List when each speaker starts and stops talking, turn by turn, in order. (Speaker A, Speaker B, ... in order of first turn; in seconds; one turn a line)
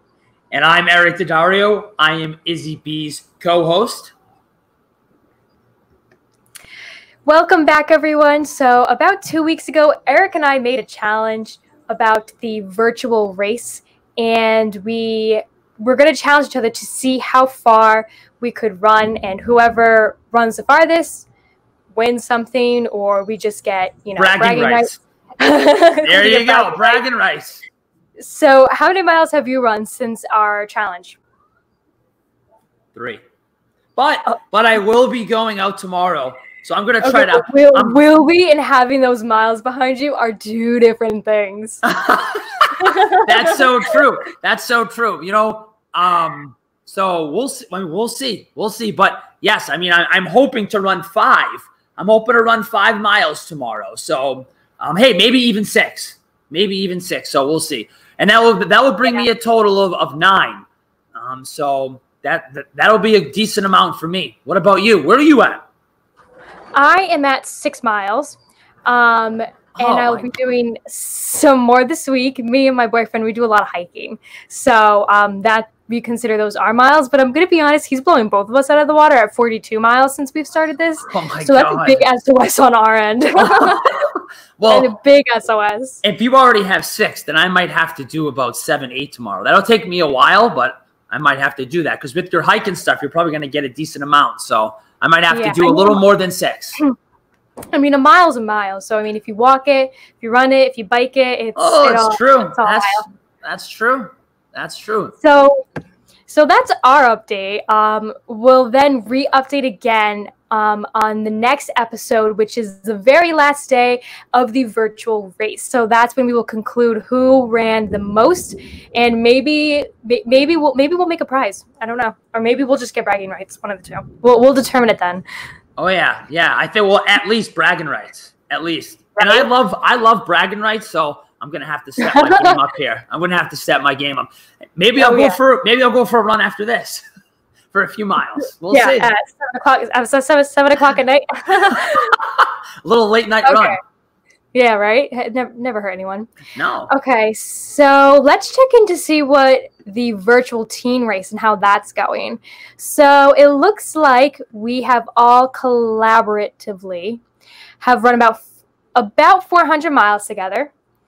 Speaker A: 0.5-4.1
Speaker B: 7.2-21.3
Speaker B: 21.9-27.0
Speaker A: 24.1-25.0
Speaker A: 26.0-27.6
Speaker B: 28.2-31.2
Speaker A: 32.9-33.2
Speaker A: 34.0-38.0
Speaker B: 37.0-41.8
Speaker A: 41.8-65.6
Speaker B: 42.8-43.3
Speaker B: 66.7-84.0
Speaker A: 69.7-70.3
Speaker A: 81.1-82.0
Speaker A: 83.5-84.0
Speaker A: 84.6-84.9
Speaker B: 84.7-86.0
Speaker A: 86.0-96.8
Speaker B: 95.3-96.0
Speaker B: 97.7-103.0
Speaker A: 101.5-105.1
Speaker B: 105.2-105.6
Speaker B: 106.3-125.2
Speaker A: 125.8-137.0
Speaker B: 129.2-129.5
Speaker B: 132.0-132.5
Speaker B: 135.0-135.4
Speaker A: 137.7-139.1
Speaker B: 138.7-142.1
Speaker A: 142.1-143.8
Speaker B: 143.4-143.8
Speaker B: 144.5-146.3
Speaker A: 146.5-146.9
Speaker B: 146.9-157.2
Speaker B: 157.8-160.7